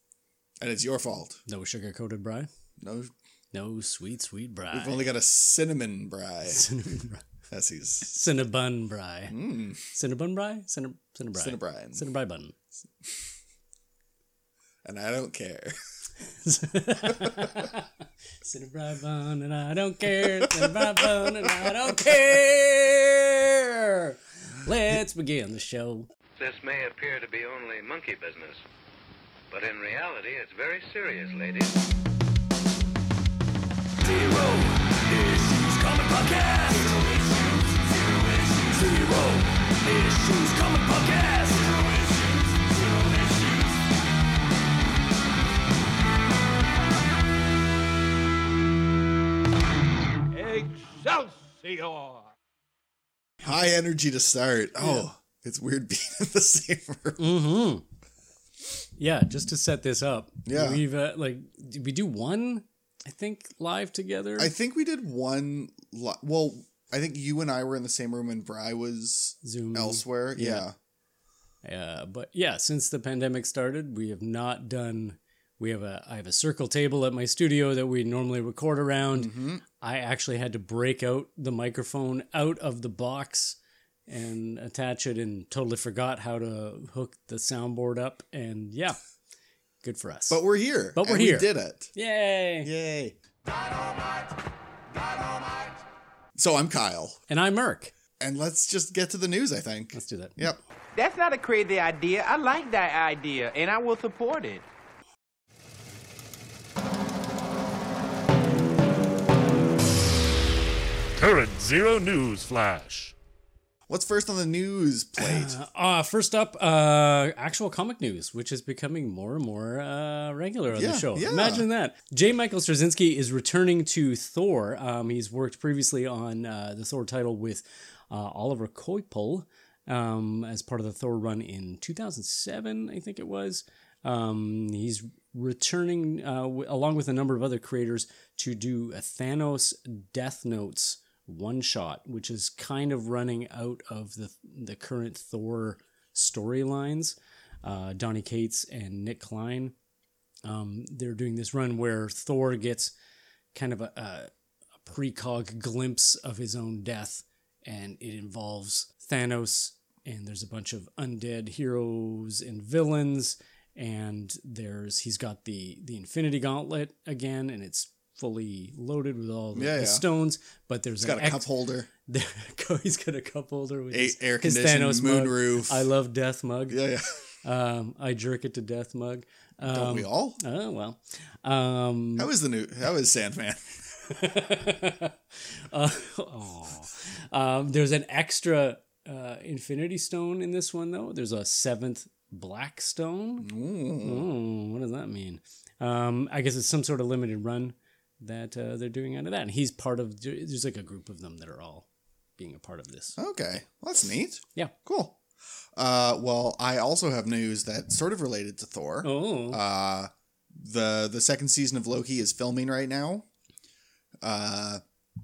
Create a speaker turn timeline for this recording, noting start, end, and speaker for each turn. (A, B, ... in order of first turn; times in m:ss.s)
0:00.6-0:01.4 A
0:01.5-0:02.5 B
0:02.8-0:03.1 A
0:03.5-0:05.1 B
0:04.7-0:06.7 A
0:06.5-0:07.2 B
0:07.5-0:08.2 A
0:08.1-0:12.6 B
0:09.3-0:09.8 A
0:11.4-0:12.1 A
0:14.8-0:15.8 A
0:16.3-0:17.9 B
0:17.0-0:17.7 A
0:18.4-0:26.1 B
0:20.1-0:22.2 A
0:26.4-0:28.6 C
0:29.5-0:31.7 C
0:34.1-0:37.1 C
0:38.0-0:42.1 C
0:42.9-0:43.4 C
0:50.4-0:52.2 D
0:53.4-0:57.3 A
0:54.8-0:55.1 B
0:57.2-0:57.8 B
0:59.0-1:04.5 B
1:00.5-1:00.8 A
1:04.4-1:10.8 A
1:09.4-1:10.6 B
1:11.6-1:29.0 B
1:19.1-1:19.6 A
1:29.8-1:30.4 B
1:30.3-1:31.9 A
1:31.0-1:32.7 B
1:32.6-1:33.2 A
1:36.4-1:37.2 A
1:37.3-1:37.9 B
1:38.2-1:40.6 A
1:40.0-1:40.4 B
1:41.0-1:44.6 E
1:51.2-1:53.1 D
1:53.9-1:55.6 A
1:55.2-2:29.7 B
2:00.7-2:01.7 A
2:30.5-2:32.9 B
2:33.5-2:34.3 B
2:34.8-2:51.5 B
2:49.5-2:50.1 A
2:51.0-2:51.9 A
2:52.0-2:56.8 B
2:53.9-2:55.9 A
2:56.7-2:57.2 A
2:57.4-3:02.3 B
2:59.7-3:00.4 A
3:02.2-3:03.8 A
3:04.1-3:13.5 B
3:13.4-3:14.3 A
3:14.0-3:21.9 B
3:22.4-3:23.2 B
3:23.2-3:25.2 A
3:25.8-3:33.3 A
3:29.0-3:29.6 B
3:34.2-3:34.8 A